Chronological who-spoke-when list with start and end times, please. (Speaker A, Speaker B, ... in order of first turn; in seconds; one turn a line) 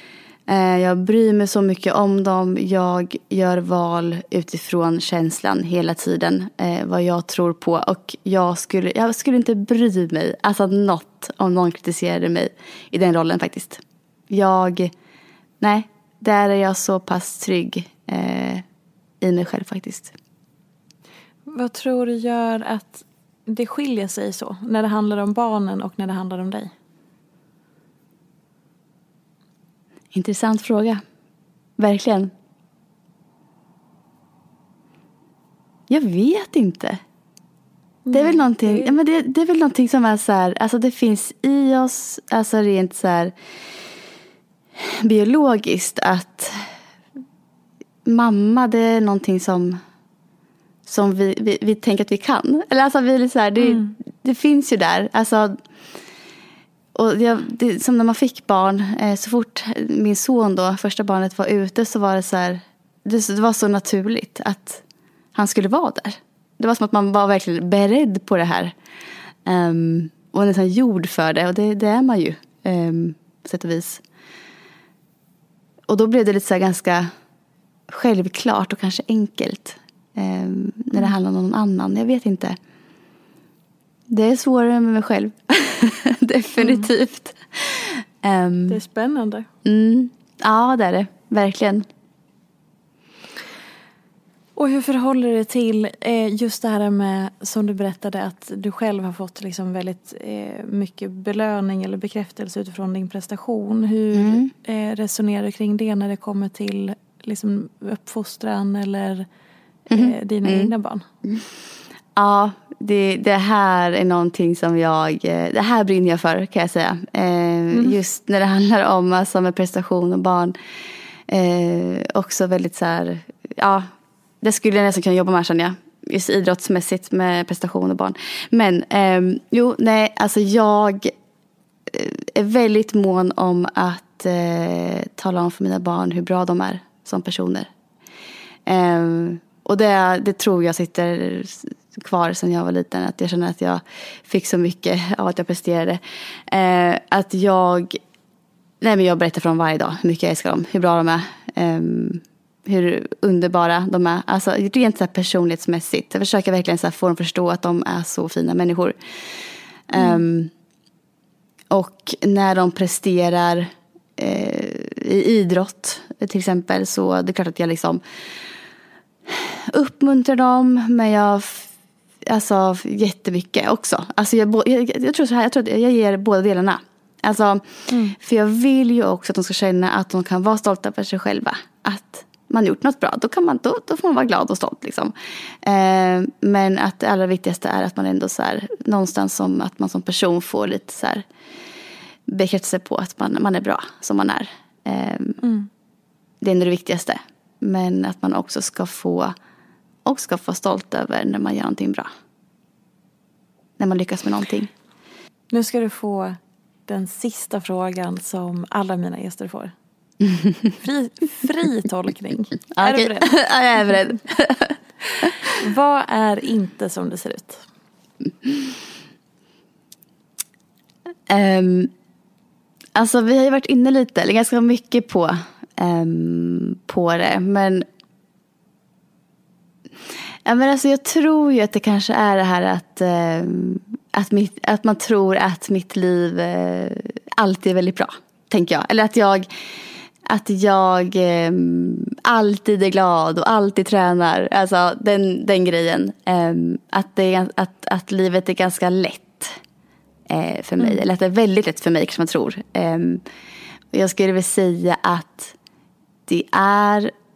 Speaker A: 0.5-14.9
Speaker A: 15.6-18.6
Speaker A: 19.2-20.1
Speaker B: 21.5-26.7
Speaker A: 30.1-31.0
Speaker A: 31.8-32.3
Speaker A: 35.9-37.0
Speaker B: 38.0-39.0
Speaker A: 38.1-43.3
Speaker A: 44.8-46.6
Speaker A: 48.0-49.8
Speaker A: 50.9-55.5
Speaker B: 53.6-53.9
Speaker A: 56.9-64.8
Speaker A: 65.3-68.7
Speaker A: 69.5-74.0
Speaker A: 75.9-77.1
Speaker A: 77.9-82.6
Speaker A: 84.1-88.8
Speaker B: 86.6-86.8
Speaker B: 88.7-89.5
Speaker A: 89.6-91.8
Speaker B: 94.5-109.3
Speaker A: 104.1-104.5
Speaker B: 109.9-111.0
Speaker A: 109.9-110.7
Speaker A: 112.2-120.5
Speaker B: 117.7-118.0
Speaker A: 121.3-123.9
Speaker A: 124.4-131.1
Speaker A: 131.9-137.7
Speaker A: 138.7-148.0
Speaker A: 148.8-158.9
Speaker A: 159.9-160.5
Speaker B: 159.9-160.2
Speaker A: 161.7-168.0
Speaker A: 169.3-171.7
Speaker A: 172.2-191.2
Speaker B: 177.9-178.2
Speaker A: 192.3-195.4
Speaker B: 195.4-195.7
Speaker A: 196.4-199.3
Speaker A: 200.0-202.1
Speaker A: 203.8-204.7
Speaker B: 205.5-209.7
Speaker B: 210.8-214.0
Speaker A: 212.7-214.8
Speaker B: 215.4-217.6
Speaker A: 221.3-221.9
Speaker A: 222.9-227.8
Speaker A: 230.4-239.5
Speaker A: 240.2-249.6
Speaker A: 250.3-253.2
Speaker A: 253.9-255.5
Speaker A: 256.3-257.1